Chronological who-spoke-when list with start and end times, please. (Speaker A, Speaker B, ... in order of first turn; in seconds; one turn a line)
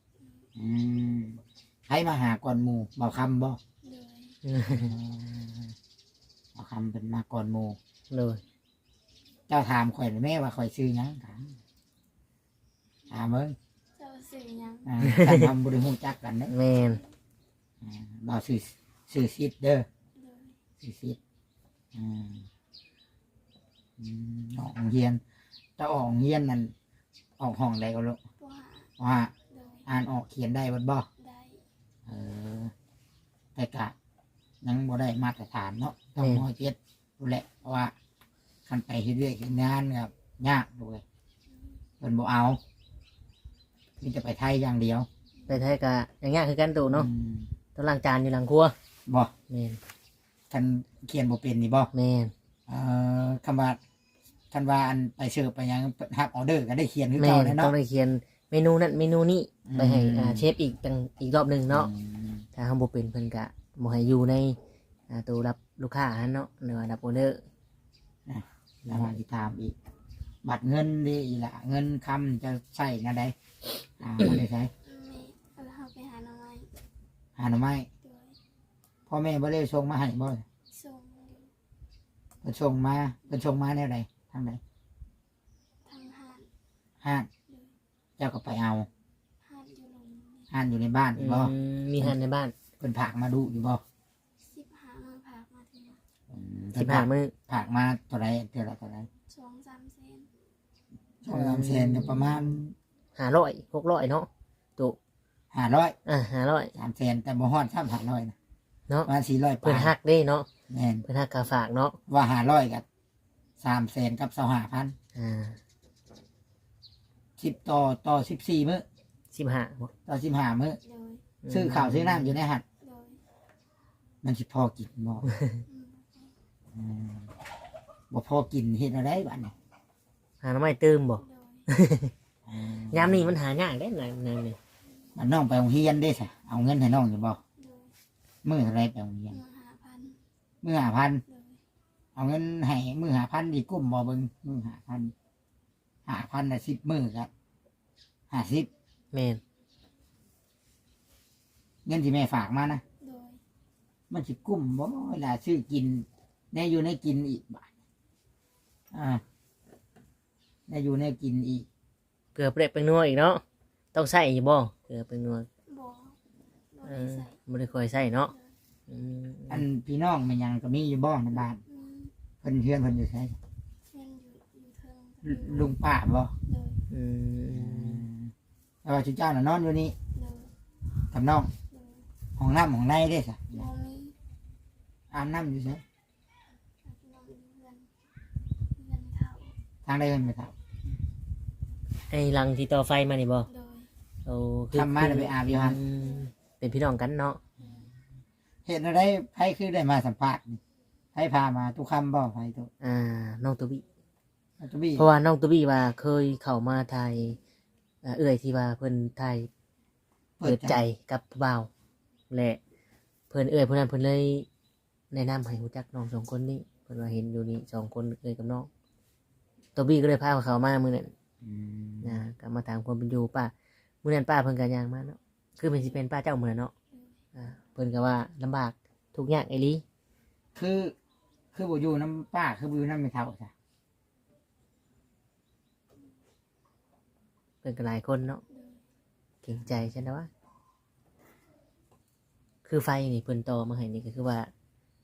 Speaker A: 0.2-0.5
Speaker B: 0.6-3.6
Speaker A: 3.8-4.4
Speaker C: 4.4-4.9
Speaker B: 4.7-5.7
Speaker B: 6.5-7.8
Speaker C: 8.1-8.4
Speaker B: 9.5-11.5
Speaker B: 13.1-13.6
Speaker A: 13.9-14.9
Speaker B: 14.8-16.5
Speaker C: 15.0-15.5
Speaker C: 16.5-17.0
Speaker B: 17.8-19.9
Speaker A: 20.1-20.6
Speaker B: 20.8-21.2
Speaker B: 21.9-22.5
Speaker B: 24.0-25.2
Speaker B: 25.8-26.7
Speaker B: 27.4-28.2
Speaker A: 28.4-28.9
Speaker B: 29.0-29.3
Speaker A: 29.5-29.9
Speaker B: 29.9-31.1
Speaker A: 31.2-31.6
Speaker B: 32.1-32.7
Speaker B: 33.5-33.9
Speaker B: 34.6-37.9
Speaker C: 36.2-36.5
Speaker B: 38.6-41.0
Speaker A: 41.5-41.8
Speaker B: 42.0-42.6
Speaker B: 44.0-45.1
Speaker A: 45.4-45.6
Speaker C: 45.5-47.1
Speaker B: 46.9-47.5
Speaker C: 47.7-48.7
Speaker B: 49.1-49.3
Speaker C: 49.5-49.8
Speaker B: 50.5-51.9
Speaker C: 51.9-52.3
Speaker B: 52.7-53.8
Speaker B: 54.5-57.7
Speaker C: 57.1-61.9
Speaker B: 59.6-60.5
Speaker B: 61.7-62.4
Speaker C: 62.5-64.6
Speaker C: 65.1-67.4
Speaker B: 68.2-69.7
Speaker C: 68.8-69.2
Speaker B: 70.4-73.3
Speaker B: 74.0-74.7
Speaker A: 74.8-76.7
Speaker B: 77.4-77.9
Speaker A: 78.0-78.4
Speaker B: 79.1-80.4
Speaker A: 80.7-81.5
Speaker B: 82.4-84.6
Speaker A: 85.8-86.5
Speaker B: 87.0-87.3
Speaker A: 87.5-87.8
Speaker B: 88.2-88.9
Speaker A: 89.4-90.5
Speaker B: 90.5-92.2
Speaker C: 91.2-92.5
Speaker B: 92.8-93.8
Speaker A: 94.4-96.0
Speaker B: 96.3-99.1
Speaker C: 96.7-97.3
Speaker A: 99.3-100.3
Speaker B: 101.2-102.7
Speaker C: 101.3-102.5
Speaker C: 103.2-105.0
Speaker B: 105.5-105.9
Speaker C: 106.0-106.7
Speaker B: 106.7-108.3
Speaker B: 109.0-109.9
Speaker C: 109.6-110.5
Speaker B: 110.7-111.0
Speaker C: 111.0-112.0
Speaker B: 112.1-112.8
Speaker B: 113.6-114.9
Speaker C: 115.1-115.6
Speaker B: 117.4-118.8
Speaker C: 119.3-119.9
Speaker B: 120.0-120.8
Speaker A: 120.8-121.3
Speaker C: 121.4-122.4
Speaker B: 121.5-122.6
Speaker A: 122.8-123.2
Speaker B: 124.2-125.3
Speaker C: 125.2-125.6
Speaker A: 125.7-126.3
Speaker B: 126.7-127.3
Speaker B: 128.1-129.5
Speaker C: 130.4-132.1
Speaker A: 131.2-131.7
Speaker B: 132.5-133.4
Speaker C: 132.9-134.6
Speaker B: 135.2-137.4
Speaker A: 137.6-137.9
Speaker B: 138.4-139.4
Speaker A: 139.3-140.2
Speaker B: 140.6-141.2
Speaker A: 141.2-141.6
Speaker B: 142.1-145.1
Speaker B: 146.1-147.3
Speaker B: 148.3-148.7
Speaker C: 149.1-149.4
Speaker B: 151.8-152.8
Speaker A: 153.0-153.4
Speaker B: 154.1-157.7
Speaker B: 158.9-159.2
Speaker B: 160.7-161.7
Speaker C: 162.3-163.4
Speaker C: 163.9-165.5
Speaker A: 165.7-166.2
Speaker A: 166.7-167.4
Speaker C: 166.8-168.3
Speaker A: 168.0-168.5
Speaker C: 168.9-169.6
Speaker B: 169.5-171.6
Speaker A: 171.7-172.1
Speaker B: 172.4-173.3
Speaker A: 173.9-175.7
Speaker B: 175.2-176.3
Speaker A: 176.4-176.8
Speaker C: 176.9-178.1
Speaker B: 177.5-178.3
Speaker B: 178.8-179.9
Speaker A: 180.1-180.5
Speaker B: 181.1-181.5
Speaker A: 181.7-182.1
Speaker B: 182.4-183.7
Speaker A: 183.5-184.2
Speaker B: 185.1-185.8
Speaker A: 186.8-187.9
Speaker A: 188.7-189.6
Speaker B: 189.8-190.5
Speaker C: 192.1-193.5
Speaker A: 193.5-193.9
Speaker C: 194.2-197.4
Speaker B: 194.7-195.8
Speaker B: 198.6-200.6
Speaker B: 201.1-202.7
Speaker C: 202.8-203.8
Speaker B: 204.6-205.1
Speaker C: 205.0-207.4
Speaker C: 208.0-209.5
Speaker B: 210.4-210.8
Speaker C: 210.4-211.7
Speaker C: 212.3-212.6
Speaker C: 213.3-214.5
Speaker C: 215.1-218.7
Speaker C: 219.8-221.1
Speaker B: 221.4-222.2
Speaker C: 222.0-223.5
Speaker C: 224.0-226.7
Speaker A: 226.9-227.2
Speaker C: 227.3-229.8
Speaker B: 230.5-230.9
Speaker B: 231.5-233.5
Speaker C: 237.6-238.4
Speaker A: 238.5-238.8
Speaker C: 239.4-240.3
Speaker C: 242.6-244.5